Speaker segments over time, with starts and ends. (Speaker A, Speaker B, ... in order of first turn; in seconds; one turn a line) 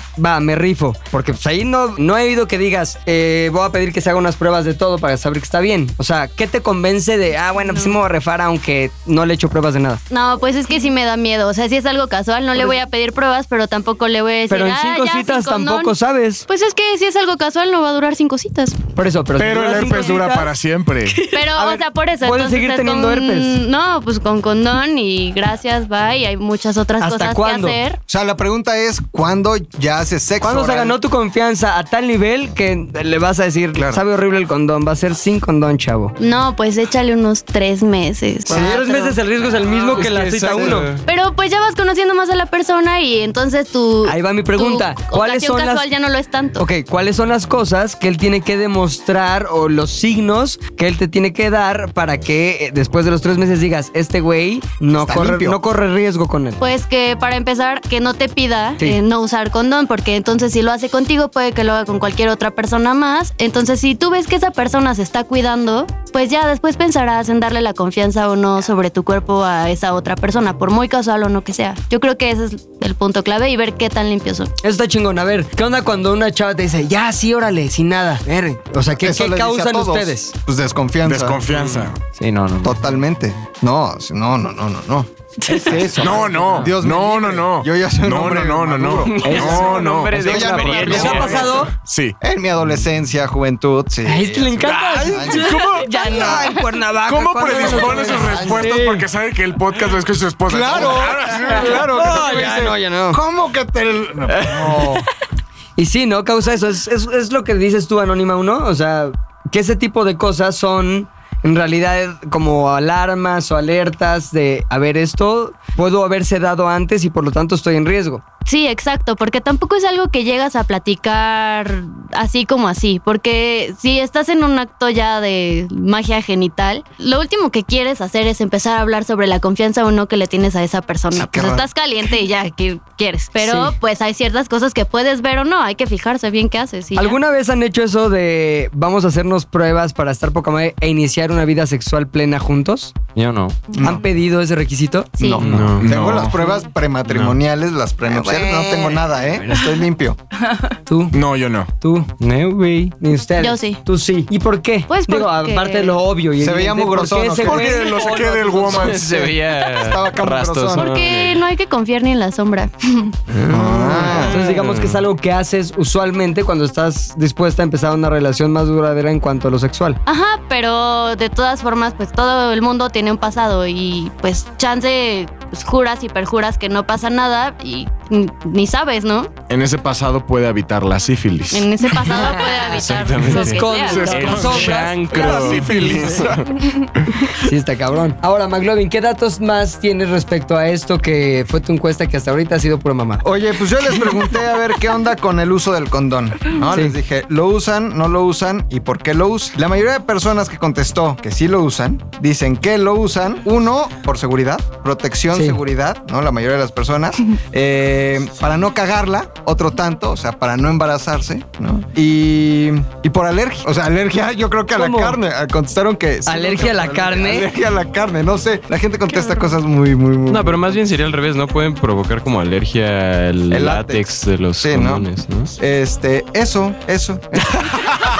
Speaker A: 0.1-10.0
Speaker B: 7.7-8.0
Speaker B: 10.1-15.9
Speaker A: 14.5-16.4
Speaker B: 16.5-18.8
Speaker A: 18.9-20.5
Speaker C: 19.4-21.2
Speaker B: 21.2-28.0
Speaker A: 21.3-23.6
Speaker A: 27.0-27.8
Speaker D: 28.1-31.0
Speaker A: 30.4-36.1
Speaker D: 33.7-34.0
Speaker B: 36.2-39.2
Speaker A: 38.5-40.9
Speaker D: 38.5-38.8
Speaker E: 39.6-41.0
Speaker D: 40.5-40.8
Speaker B: 41.0-46.6
Speaker A: 44.0-45.9
Speaker A: 46.6-56.6
Speaker D: 55.0-55.6
Speaker B: 56.6-74.5
Speaker A: 74.6-80.3
Speaker D: 78.9-81.4
Speaker C: 81.0-82.0
Speaker E: 81.5-81.9
Speaker F: 82.1-82.8
Speaker D: 82.6-91.5
Speaker A: 85.4-86.4
Speaker C: 86.0-92.2
Speaker E: 89.0-91.7
Speaker A: 89.2-91.7
Speaker D: 92.2-95.5
Speaker A: 94.0-99.0
Speaker E: 94.6-95.1
Speaker C: 95.2-96.4
Speaker B: 95.9-96.3
Speaker C: 97.0-102.0
Speaker D: 97.5-98.7
Speaker D: 100.5-105.0
Speaker A: 101.2-103.2
Speaker E: 104.3-105.0
Speaker A: 105.8-118.2
Speaker B: 118.5-137.2
Speaker D: 131.1-131.7
Speaker A: 133.4-133.7
Speaker A: 136.9-142.9
Speaker F: 143.1-143.6
Speaker D: 143.7-144.0
Speaker A: 143.8-145.2
Speaker B: 145.2-145.4
Speaker D: 145.2-150.2
Speaker E: 145.4-145.9
Speaker C: 145.6-146.3
Speaker B: 148.1-148.9
Speaker A: 150.9-151.2
Speaker C: 151.1-151.7
Speaker A: 151.8-152.1
Speaker F: 152.2-152.9
Speaker A: 153.0-159.0
Speaker B: 153.4-153.8
Speaker B: 154.9-156.0
Speaker D: 156.4-157.8
Speaker C: 157.4-159.3
Speaker E: 158.6-161.4
Speaker D: 158.9-160.9
Speaker B: 160.7-163.1
Speaker A: 163.3-170.0
Speaker D: 163.5-164.3
Speaker E: 164.1-165.0
Speaker B: 170.1-179.3
Speaker C: 179.5-182.0
Speaker B: 181.5-184.3
Speaker E: 182.1-186.3
Speaker A: 183.3-186.3
Speaker C: 183.8-187.3
Speaker A: 187.3-193.2
Speaker D: 193.2-220.8
Speaker A: 196.7-196.9
Speaker A: 205.3-205.6
Speaker A: 214.7-215.2
Speaker A: 216.2-217.5
Speaker E: 220.3-225.5
Speaker D: 223.5-227.7